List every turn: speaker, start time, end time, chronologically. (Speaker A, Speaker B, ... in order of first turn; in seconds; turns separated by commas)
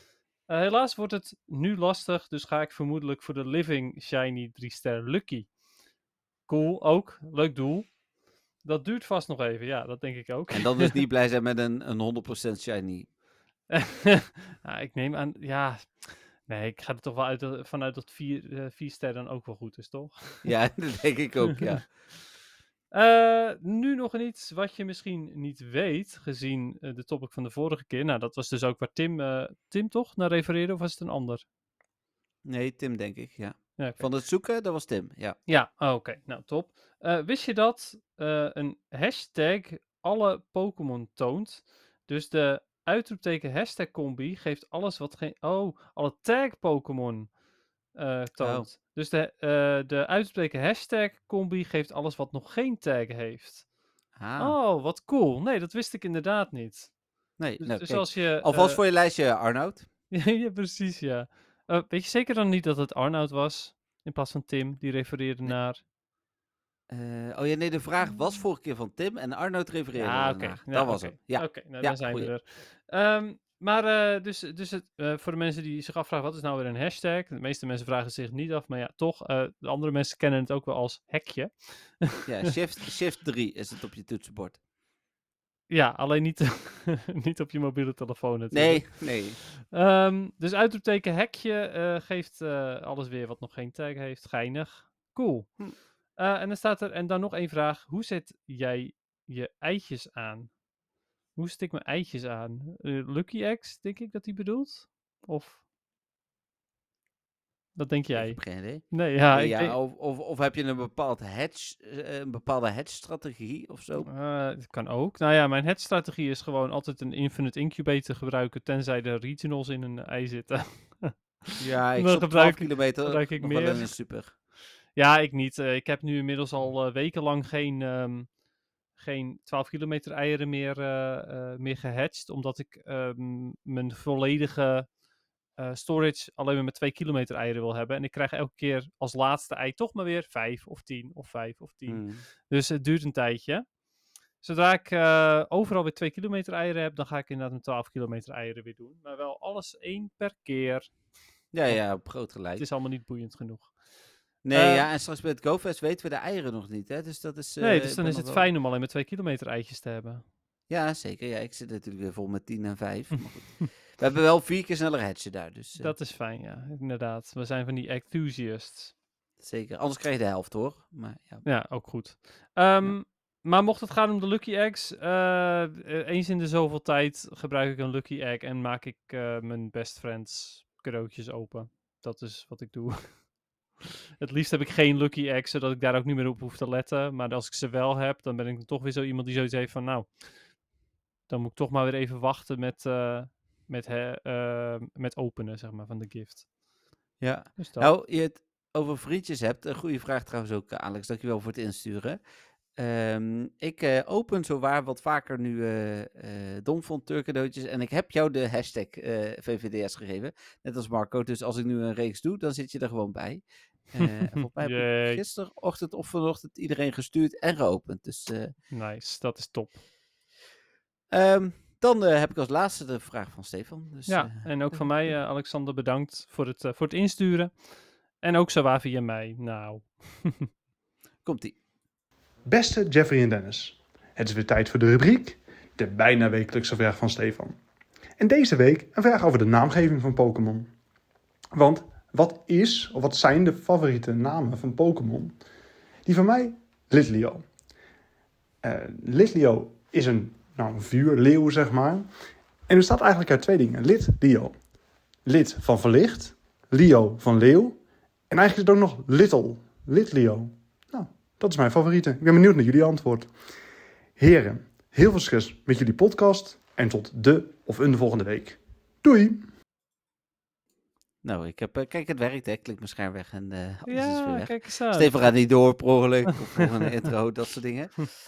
Speaker A: 0.5-5.5, Speaker A: 6.5-8.0, Speaker A: 8.6-10.9, Speaker B: 10.5-13.1, Speaker A: 13.7-20.5, Speaker B: 20.4-21.9, Speaker A: 22.9-31.4, Speaker B: 32.4-35.4, Speaker A: 33.8-34.1, Speaker A: 35.5-47.4, Speaker A: 47.9-53.7, Speaker B: 48.4-48.7, Speaker B: 54.2-54.5, Speaker A: 54.4-58.8, Speaker B: 57.4-59.9, Speaker A: 60.1-65.8, Speaker B: 66.9-72.3, Speaker A: 69.9-82.5, Speaker B: 82.2-84.6, Speaker A: 85.7-100.6, Speaker B: 88.5-89.4, Speaker A: 101.3-105.6, Speaker A: 107.8-109.7, Speaker B: 108.1-114.1, Speaker A: 114.0-124.0, Speaker B: 121.6-124.3, Speaker A: 124.9-128.3, Speaker A: 128.9-134.9, Speaker A: 135.6-143.8, Speaker B: 141.8-142.2, Speaker A: 144.4-151.0, Speaker B: 151.5-152.6, Speaker A: 151.6-154.9, Speaker B: 154.4-158.5, Speaker A: 157.6-160.2, Speaker B: 160.7-165.9, Speaker A: 165.8-168.9, Speaker B: 169.4-171.4, Speaker A: 171.4-183.3, Speaker A: 184.2-190.5, Speaker A: 191.3-196.5, Speaker B: 197.2-202.2, Speaker A: 197.6-197.9, Speaker B: 202.8-218.5, Speaker A: 214.0-215.2, Speaker A: 218.7-219.8, Speaker B: 221.1-225.1, Speaker A: 224.1-230.5, Speaker B: 231.2-231.6, Speaker C: 232.4-237.6, Speaker C: 238.2-240.7, Speaker C: 241.5-245.3, Speaker C: 246.1-247.4, Speaker C: 248.6-252.1, Speaker C: 252.7-254.6, Speaker C: 255.2-257.8, Speaker C: 258.3-263.3, Speaker C: 264.2-269.5, Speaker B: 271.2-278.1, Speaker A: 273.9-275.4